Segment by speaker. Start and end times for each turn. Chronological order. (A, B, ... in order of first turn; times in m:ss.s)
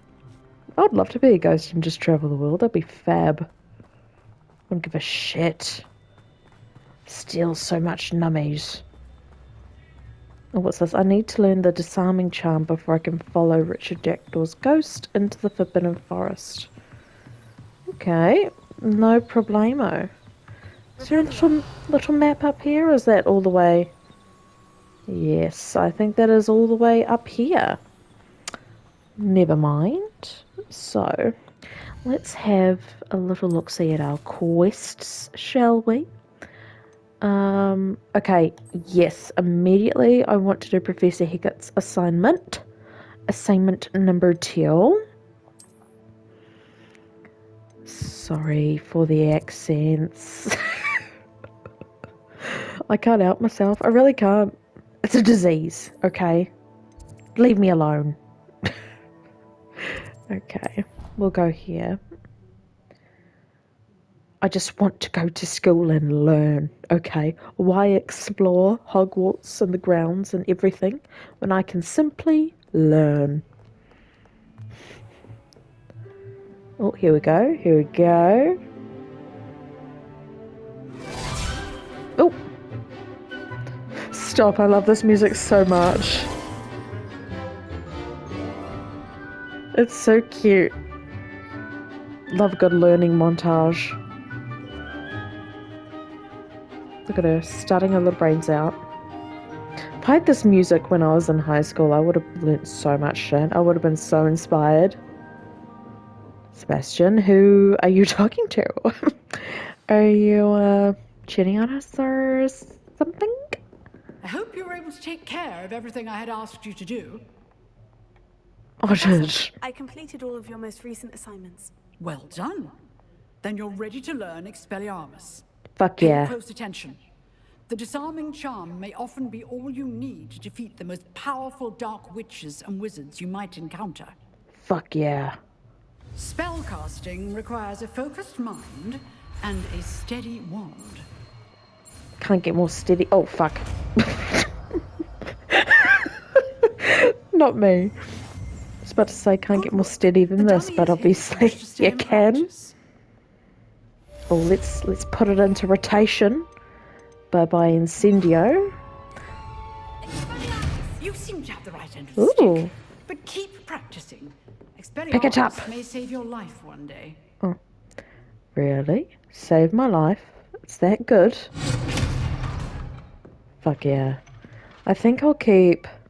0:00.8-0:03.5 A
0:04.7-0:05.9 A
0:07.0-0:08.8 A
0:10.5-0:16.7 A
0:17.9-0:20.1 A
0:21.0-0:21.6 B
0:21.0-0:23.9 A
0:25.1-0:27.8 A
0:29.2-0:31.3 A
0:32.0-0:36.1 A
0:37.2-0:42.6 A
0:43.3-0:45.0 A
0:47.8-0:50.9 A
0:52.4-0:56.5 A
0:57.4-0:58.7 A
0:59.8-1:02.0 A
1:04.4-1:13.4 A
1:16.8-1:18.6 A
1:24.1-1:26.3 A
1:29.7-1:30.7 A
1:32.3-1:34.0 A
1:37.1-1:38.8 A
1:40.0-1:45.0 A
1:46.5-1:53.6 A
1:54.2-1:57.2 C
1:58.8-1:59.5 A
1:58.9-2:01.7 B
2:02.0-2:02.7 C
2:03.4-2:05.4 C
2:05.8-2:06.4 A
2:06.0-2:07.0 C
2:07.7-2:14.1 C
2:14.6-2:15.4 A
2:16.1-2:21.0 C
2:22.2-2:24.5 A
2:25.5-2:27.9 A
2:28.8-2:32.5 A
2:29.5-2:32.7 C
2:34.3-2:36.5 A
2:37.3-2:38.7 A
2:41.0-2:47.2 C
2:42.2-2:42.7 A
2:45.1-2:45.7 A
2:48.5-2:51.5 A
2:53.6-2:54.2 A
2:54.8-2:55.9 A